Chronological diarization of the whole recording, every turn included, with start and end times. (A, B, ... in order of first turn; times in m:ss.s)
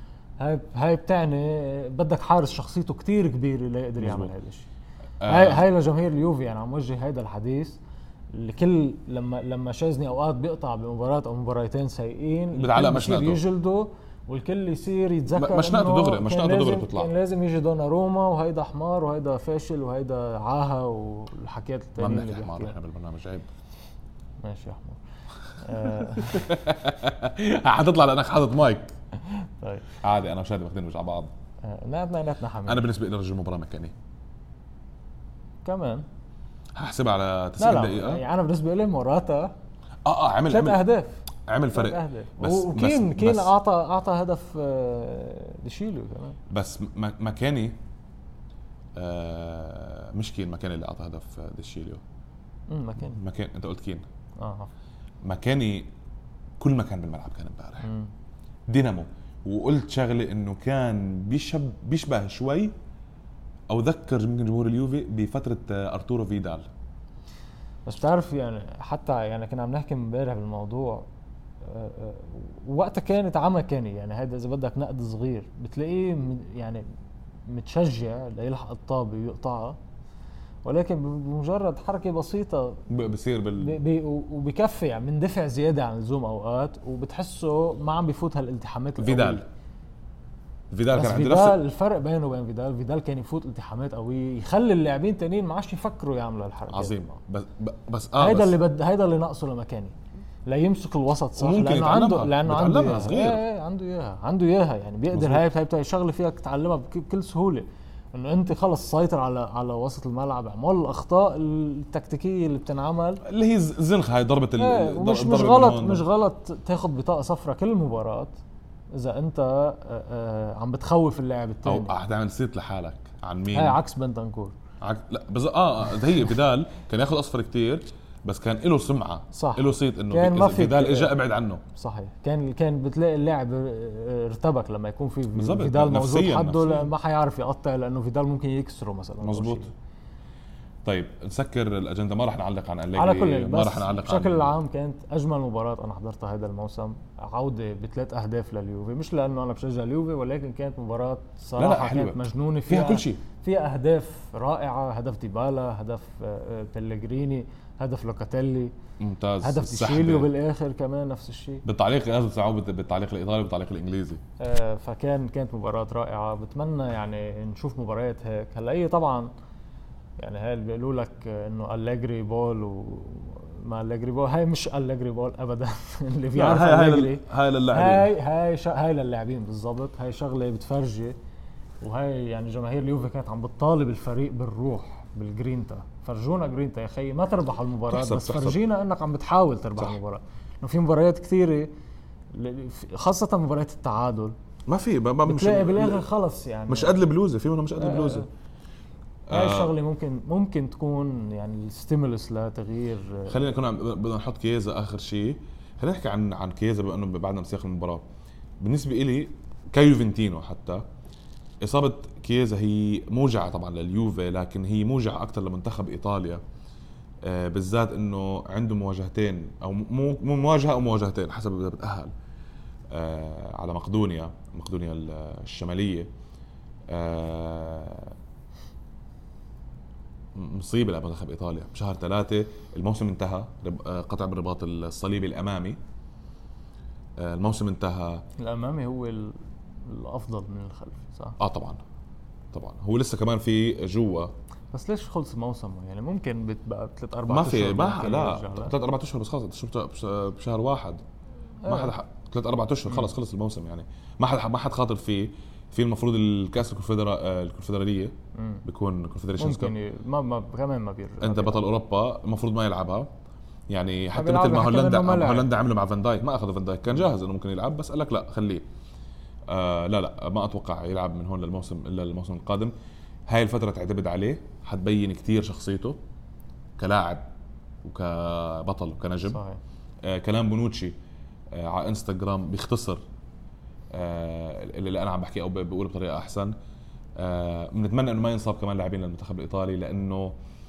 0:00.4-0:04.7 A
0:04.0-0:04.3 B
0:05.2-0:05.6 B
0:05.2-0:07.8 A
0:08.3-0:22.8 A
0:12.6-0:13.4 B
0:15.3-0:17.1 B
0:22.0-0:23.5 B
0:24.4-0:25.0 A
0:25.5-0:26.5 A
0:25.7-0:28.9 B
0:29.2-0:29.9 A
0:30.0-0:31.3 B
0:31.6-0:32.9 A
0:32.6-0:33.9 B
0:35.6-0:36.0 A
0:36.8-0:38.2 B
0:37.6-0:39.5 A
0:40.0-0:40.8 B
0:40.5-0:46.4 A
0:41.5-0:43.5 B
0:46.5-0:47.8 B
0:49.0-0:52.0 B
0:52.7-0:53.2 A
0:53.2-0:54.0 B
0:54.4-0:54.7 A
0:55.2-0:55.9 B
0:56.6-0:57.9 B
0:57.8-0:58.1 A
0:58.7-1:02.7 B
1:03.7-1:06.7 B
1:07.8-1:11.0 A
1:11.6-1:16.8 A
1:17.5-1:19.8 A
1:20.6-1:22.8 A
1:22.9-1:23.8 B
1:23.6-1:29.4 A
1:29.0-1:29.4 B
1:30.7-1:31.6 B
1:30.9-1:37.0 A
1:36.7-1:38.6 B
1:38.2-1:40.0 A
1:40.5-1:53.2 A
1:41.4-1:43.4 B
1:45.1-1:45.4 B
1:53.2-1:56.0 B
1:54.6-1:58.4 A
1:58.9-2:01.9 A
2:01.6-2:03.8 B
2:03.5-2:04.5 A
2:04.8-2:11.6 B
2:09.3-2:11.2 A
2:11.7-2:19.7 A
2:15.3-2:16.9 B
2:19.2-2:19.7 B
2:20.8-2:24.5 B
2:22.9-2:38.7 A
2:31.6-2:33.2 B
2:39.0-2:40.3 B
2:39.4-2:41.6 A
2:41.6-2:44.2 B
2:44.4-2:49.3 A
2:50.2-3:01.2 A
2:56.3-2:58.1 B
3:01.8-3:11.7 A
3:07.9-3:08.6 B
3:12.3-3:14.3 A
3:14.7-3:16.0 B
3:15.2-3:17.0 A
3:16.7-3:18.3 B
3:17.8-3:18.2 A
3:19.3-3:19.7 B
3:19.3-3:23.4 A
3:23.3-3:28.0 B
3:28.6-3:30.8 B
3:31.6-3:36.4 B
3:37.2-3:42.1 B
3:42.9-3:46.1 B
3:46.9-3:48.2 B
3:50.3-3:55.8 B
3:57.2-3:58.2 B
3:58.4-4:01.4 A
4:01.4-4:01.8 B
4:02.5-4:04.3 B
4:04.7-4:08.7 A
4:07.3-4:11.0 B
4:11.6-4:11.9 A
4:11.7-4:18.1 B
4:18.4-4:18.6 A
4:18.6-4:19.7 B
4:19.4-4:21.6 A
4:21.2-4:23.1 B
4:23.7-4:28.6 B
4:24.1-4:25.5 A
4:29.5-4:32.7 B
4:33.3-4:36.0 B
4:36.8-4:37.2 B
4:37.8-4:39.4 B
4:39.3-4:39.6 A
4:40.0-4:40.9 B
4:41.5-4:43.0 B
4:43.9-4:46.5 B
4:47.2-4:50.3 B